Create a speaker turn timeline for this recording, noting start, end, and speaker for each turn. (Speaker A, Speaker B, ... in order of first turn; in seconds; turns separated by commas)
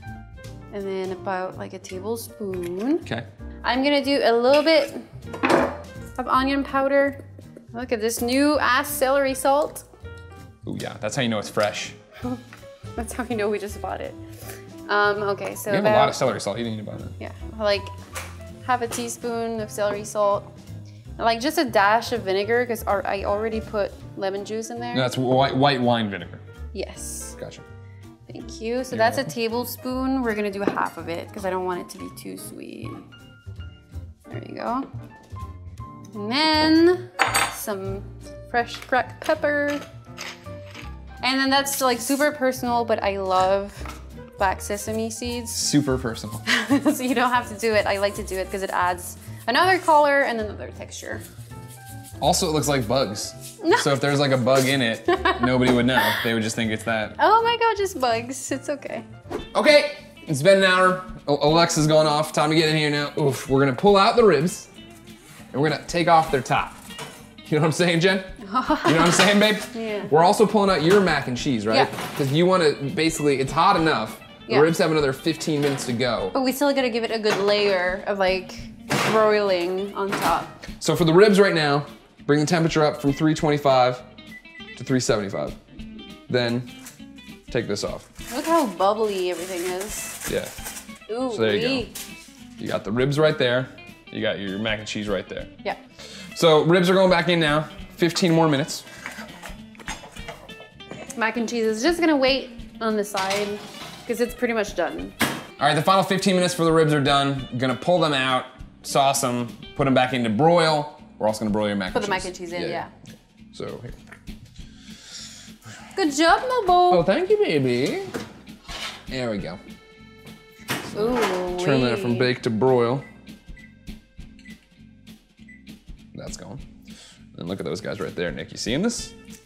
Speaker A: 0.7-3.0, Speaker A: 3.6-5.1, Speaker A: 6.2-7.2, Speaker A: 7.7-9.9, Speaker B: 10.7-12.0, Speaker A: 13.0-14.2, Speaker A: 14.9-16.2, Speaker B: 15.7-17.1, Speaker A: 17.2-17.9, Speaker A: 18.6-20.5, Speaker A: 21.2-25.1, Speaker B: 24.9-26.4, Speaker A: 26.7-27.4, Speaker B: 27.4-27.6, Speaker A: 28.3-33.1, Speaker B: 28.9-29.3, Speaker A: 34.3-34.9, Speaker A: 36.1-39.8, Speaker A: 41.2-45.6, Speaker B: 45.5-46.4, Speaker A: 46.5-51.2, Speaker B: 52.2-57.1, Speaker A: 53.6-53.9, Speaker A: 55.1-56.2, Speaker A: 57.2-59.1, Speaker B: 59.5-64.7, Speaker B: 65.5-66.8, Speaker B: 67.5-68.3, Speaker A: 68.4-70.1, Speaker B: 68.8-76.3, Speaker A: 76.3-80.5, Speaker B: 80.8-84.0, Speaker B: 84.8-85.6, Speaker B: 86.3-86.7, Speaker B: 87.5-88.1, Speaker A: 88.3-90.2, Speaker B: 90.3-90.5, Speaker A: 91.1-91.9, Speaker B: 91.3-91.9, Speaker B: 92.6-95.5, Speaker B: 96.3-98.8, Speaker A: 101.1-105.2, Speaker B: 105.6-112.8, Speaker A: 111.9-112.9, Speaker B: 113.5-113.9, Speaker A: 115.9-117.0, Speaker B: 116.9-118.1, Speaker B: 119.1-119.6, Speaker B: 120.9-123.0, Speaker A: 120.9-122.3, Speaker B: 126.1-126.6, Speaker B: 127.3-129.1